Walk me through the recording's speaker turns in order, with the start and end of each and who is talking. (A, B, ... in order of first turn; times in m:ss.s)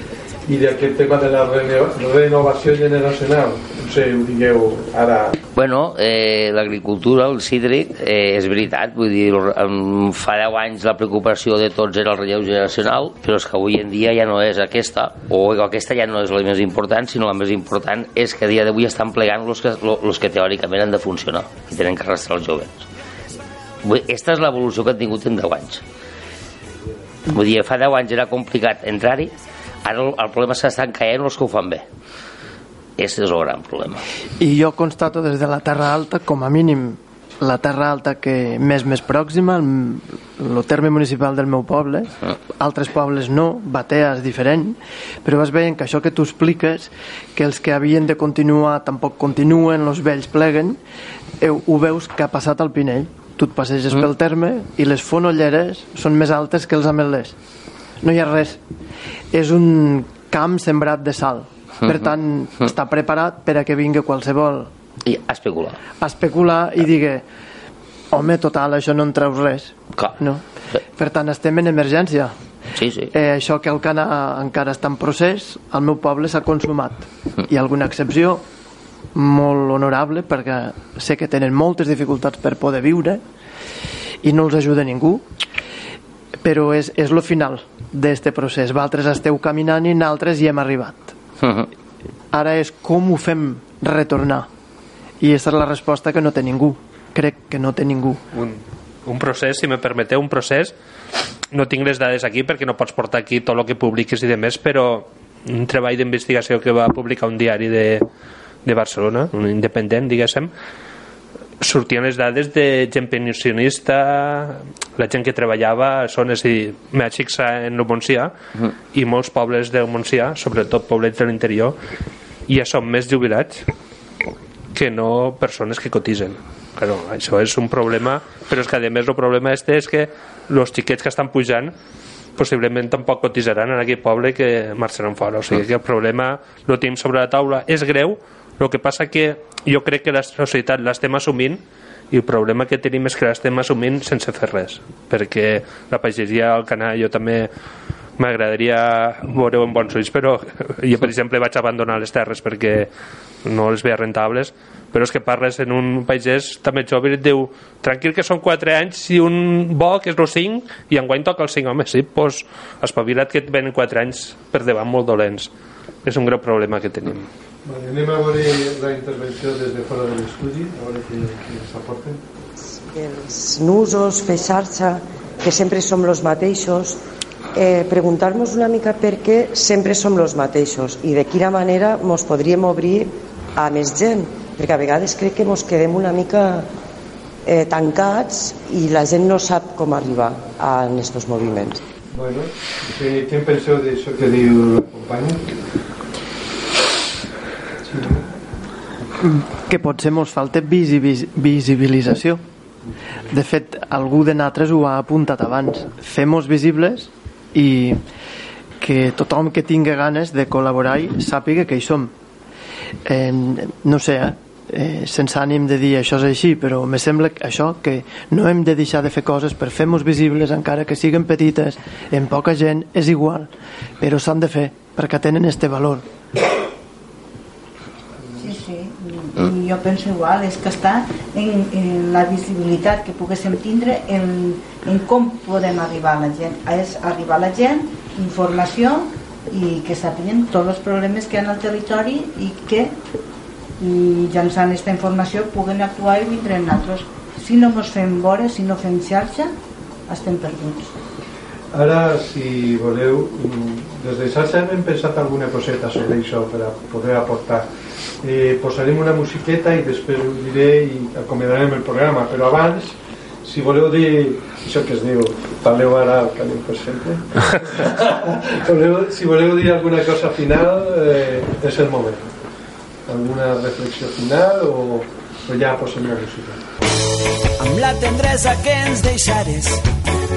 0:00.4-0:05.4 A
0:05.5-0:22.9 B
0:23.8-0:25.8 B
0:27.3-0:31.8 B
0:33.0-0:34.0 B
0:34.4-0:50.8 C
0:51.4-0:57.4 C
0:58.0-0:58.6 C
0:59.3-1:04.7 C
1:05.0-1:05.8 B
1:06.0-1:07.2 C
1:08.1-1:10.4 C
1:10.9-1:12.3 C
1:12.8-1:13.1 B
1:13.1-1:18.4 C
1:19.1-1:23.2 C
1:24.2-1:25.2 C
1:26.4-1:31.2 C
1:31.4-1:31.7 B
1:32.3-1:34.5 C
1:35.2-1:38.2 C
1:38.3-1:40.7 D
1:41.5-1:48.0 D
1:48.6-1:50.5 D
1:51.6-1:58.3 D
1:58.9-2:01.8 D
2:02.5-2:03.7 D
2:04.7-2:11.7 D
2:12.4-2:27.5 D
2:28.2-2:32.9 D
2:33.4-2:45.5 D
2:46.0-2:47.3 D
2:47.6-2:52.2 A
2:52.9-2:57.0 E
2:57.5-3:06.7 E
3:07.4-3:11.8 E
3:12.1-3:15.5 A
3:17.8-3:18.3 A
3:19.2-3:22.4 C
3:23.3-3:28.0 C
3:28.8-3:32.1 C
3:33.0-3:46.0 C
3:48.4-4:02.9 F
4:03.8-4:09.5 F
4:10.1-4:10.9 F
4:11.7-4:17.7 A
4:18.2-4:32.3 A
4:33.0-4:36.6 A
4:37.6-4:39.8 G